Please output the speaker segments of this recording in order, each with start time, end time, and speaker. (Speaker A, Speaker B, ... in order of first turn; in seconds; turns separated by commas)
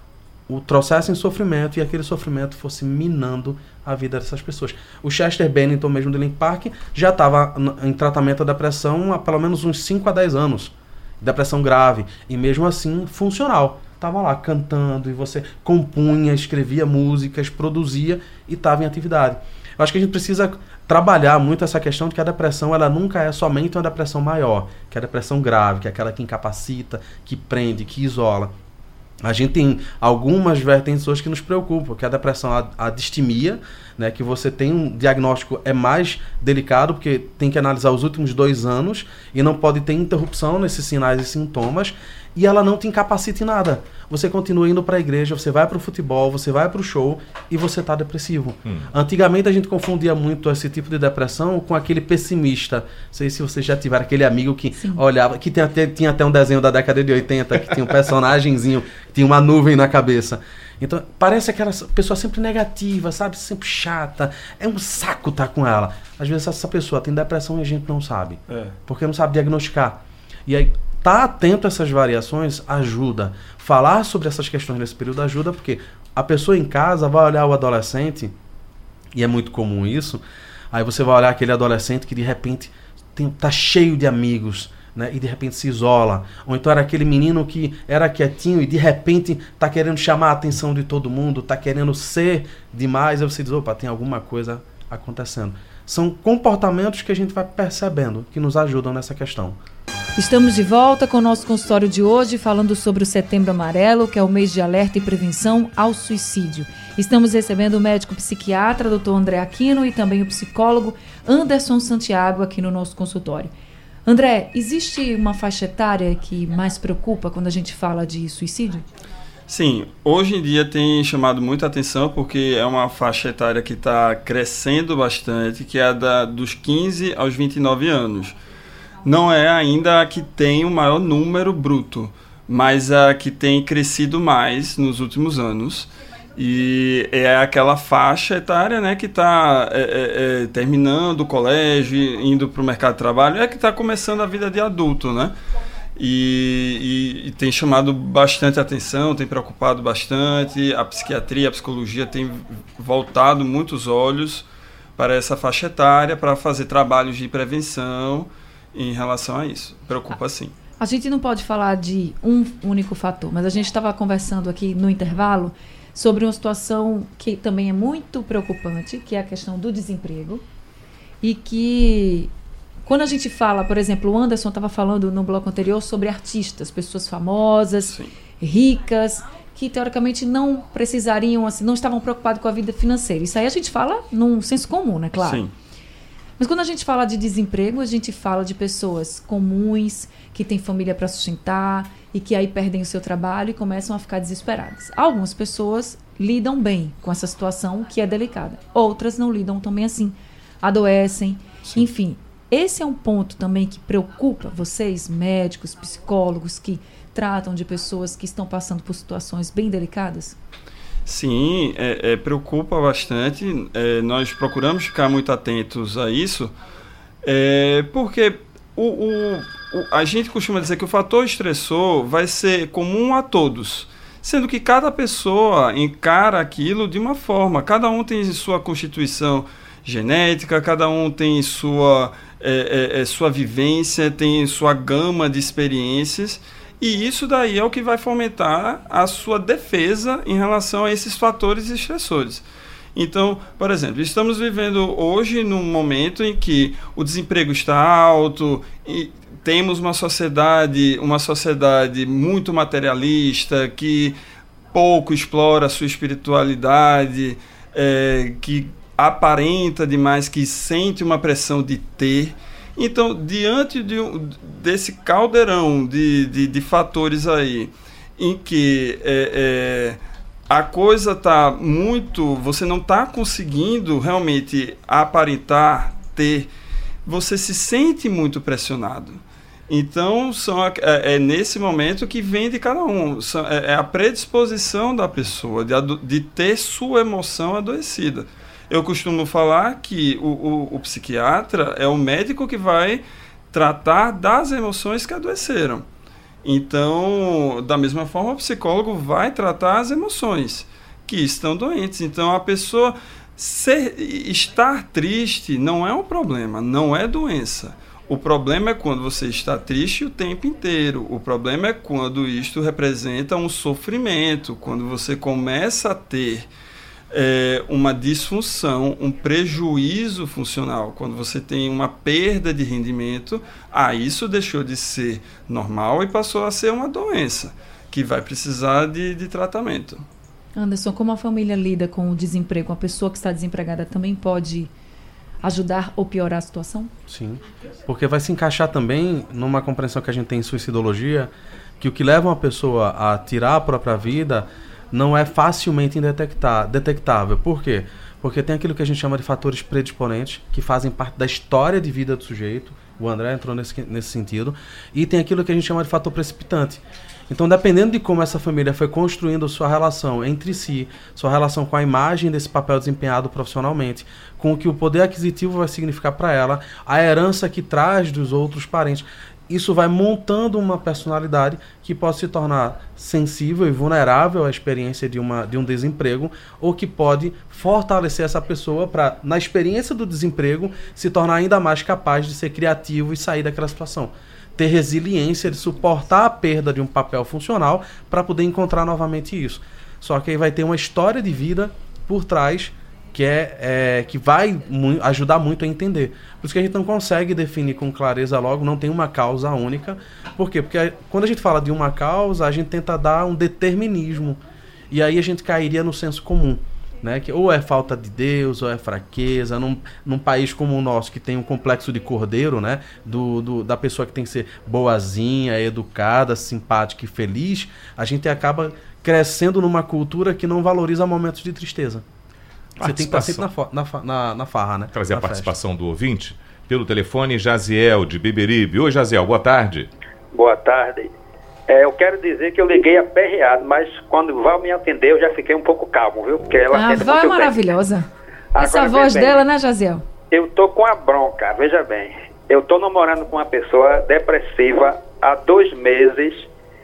Speaker A: 0.5-28.5, Speaker A: 29.2-78.3, Speaker B: 54.8-55.0, Speaker C: 68.5-68.8, Speaker A: 79.1-99.6, Speaker B: 100.2-113.5, Speaker B: 114.1-118.8, Speaker C: 119.5-128.4, Speaker C: 129.0-145.4, Speaker C: 146.0-160.6, Speaker B: 160.8-170.4, Speaker B: 171.2-172.3, Speaker B: 172.9-185.4, Speaker C: 185.2-185.5, Speaker B: 186.4-210.4, Speaker C: 211.1-216.6, Speaker C: 217.2-254.2, Speaker C: 254.7-276.5, Speaker C: 277.1-295.9, Speaker C: 296.4-316.5, Speaker C: 317.1-330.0, Speaker B: 330.6-334.7, Speaker B: 335.4-336.9, Speaker A: 337.1-422.1, Speaker D: 422.8-423.5, Speaker A: 422.8-425.5, Speaker D: 424.9-429.9, Speaker E: 430.3-431.1, Speaker E: 431.7-437.6, Speaker B: 436.7-440.1, Speaker E: 438.5-439.4, Speaker E: 440.3-446.5